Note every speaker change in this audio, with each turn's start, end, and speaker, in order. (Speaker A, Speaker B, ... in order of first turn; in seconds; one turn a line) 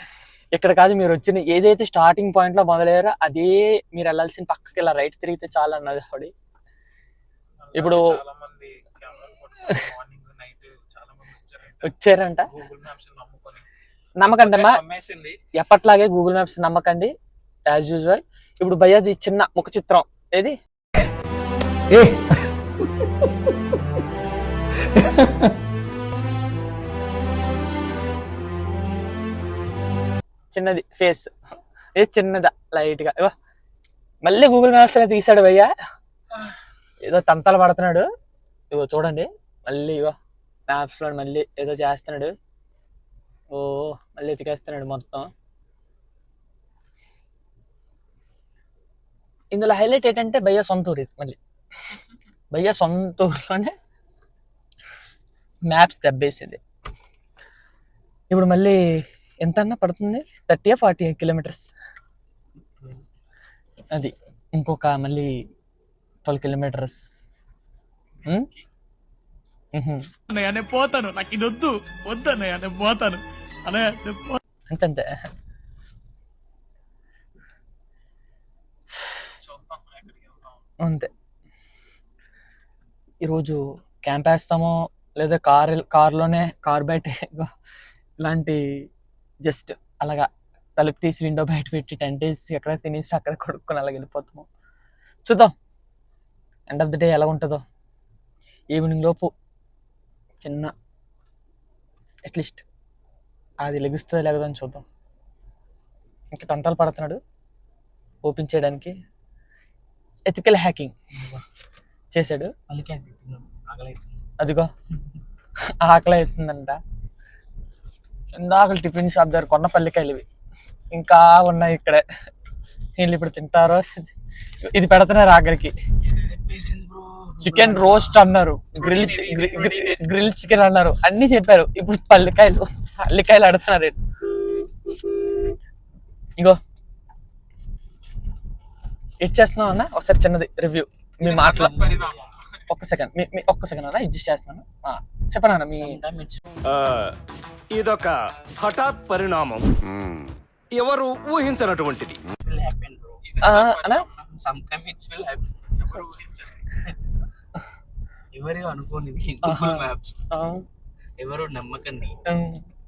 Speaker A: 0.5-6.3
Speaker B: 7.6-11.9
Speaker A: 7.7-8.0
Speaker A: 11.8-12.5
Speaker B: 12.5-13.7
Speaker A: 14.2-14.8
Speaker B: 14.4-15.4
Speaker A: 15.5-17.1
Speaker A: 17.6-20.5
Speaker A: 30.5-31.3
Speaker A: 31.9-33.3
Speaker A: 34.2-35.7
Speaker A: 37.0-38.1
Speaker A: 38.7-40.1
Speaker A: 40.7-42.3
Speaker A: 43.5-45.3
Speaker A: 49.5-51.4
Speaker A: 52.5-53.7
Speaker A: 55.6-56.6
Speaker A: 58.3-58.8
Speaker A: 59.4-61.7
Speaker C: 62.6-63.0
Speaker A: 63.9-65.3
Speaker A: 66.2-67.0
Speaker B: 68.1-68.7
Speaker A: 69.7-70.1
Speaker D: 70.3-73.2
Speaker A: 74.7-75.1
Speaker B: 79.4-80.6
Speaker A: 80.8-81.1
Speaker A: 83.2-87.5
Speaker A: 88.2-88.6
Speaker A: 89.4-94.5
Speaker A: 95.2-95.5
Speaker A: 96.7-97.6
Speaker A: 98.7-99.3
Speaker A: 100.4-100.7
Speaker A: 102.2-102.6
Speaker A: 103.6-104.8
Speaker A: 106.3-107.2
Speaker A: 108.2-108.9
Speaker A: 110.3-110.9
Speaker C: 111.2-111.4
Speaker A: 112.1-112.5
Speaker C: 112.7-114.2
Speaker A: 114.4-114.7
Speaker A: 115.8-116.8
Speaker A: 118.3-120.2
Speaker A: 120.9-122.0
Speaker A: 123.0-124.1
Speaker A: 124.7-125.7
Speaker C: 126.1-128.2
Speaker A: 127.4-134.0
Speaker B: 128.8-130.0
Speaker A: 139.2-141.8
Speaker B: 141.2-142.6
Speaker C: 141.2-142.3
Speaker A: 142.7-145.9
Speaker C: 145.7-146.4
Speaker E: 146.7-147.2
Speaker E: 147.7-149.7
Speaker E: 150.7-152.2
Speaker C: 152.4-153.2
Speaker B: 153.2-154.2
Speaker A: 153.4-154.1
Speaker C: 154.1-155.5
Speaker B: 155.8-156.7
Speaker C: 156.8-157.1
Speaker C: 158.3-160.2
Speaker A: 159.4-160.6
Speaker C: 161.2-162.2
Speaker A: 162.2-162.6